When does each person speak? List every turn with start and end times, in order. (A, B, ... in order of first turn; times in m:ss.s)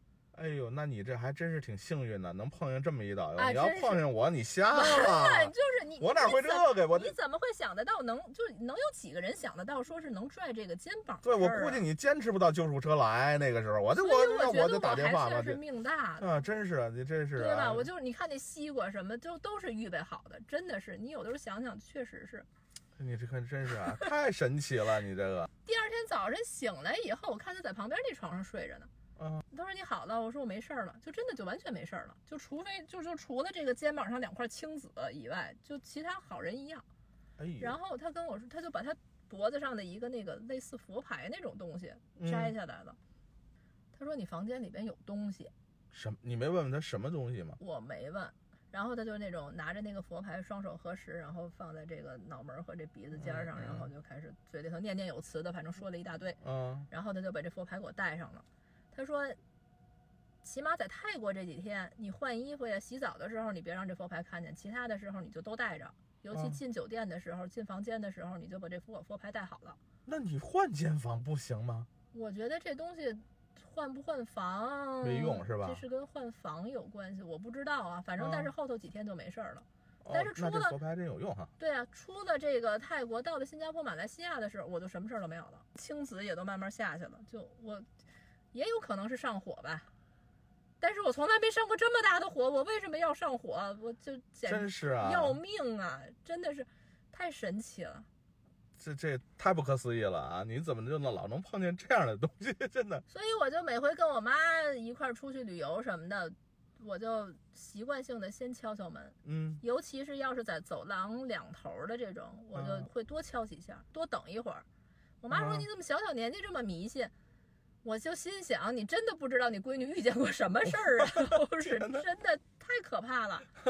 0:00.3-0:07.1 A
0:03.4-0:04.0 B
0:04.7-0:11.8 B
0:11.2-0:15.6 A
0:13.9-0:16.4 B
0:16.2-0:17.9 A
0:17.4-0:22.5 B
0:23.0-0:25.5 A
0:25.6-0:28.9 B
0:29.2-0:29.4 A
0:29.5-0:36.8 B
0:37.4-0:37.8 A
0:37.6-0:43.0 B
0:42.2-0:42.5 A
0:43.9-0:45.5 B
0:45.9-0:47.6 A
0:47.6-0:56.4 B
0:53.1-0:53.9 A
0:56.4-0:56.9 A
0:56.9-0:59.4 B
1:00.4-1:09.8 B
1:06.3-1:06.6 A
1:10.0-1:11.9 A
1:12.1-1:20.8 B
1:15.0-1:15.8 A
1:18.2-1:18.5 A
1:20.0-1:21.5 A
1:21.6-1:27.8 B
1:28.5-1:29.9 B
1:30.8-1:38.1 B
1:34.4-1:35.4 A
1:38.8-1:43.0 A
1:43.1-1:54.6 B
1:49.2-1:49.6 A
1:52.5-1:52.9 A
1:55.2-1:57.1 B
1:55.3-1:55.6 A
1:57.8-2:03.5 B
2:01.2-2:02.0 A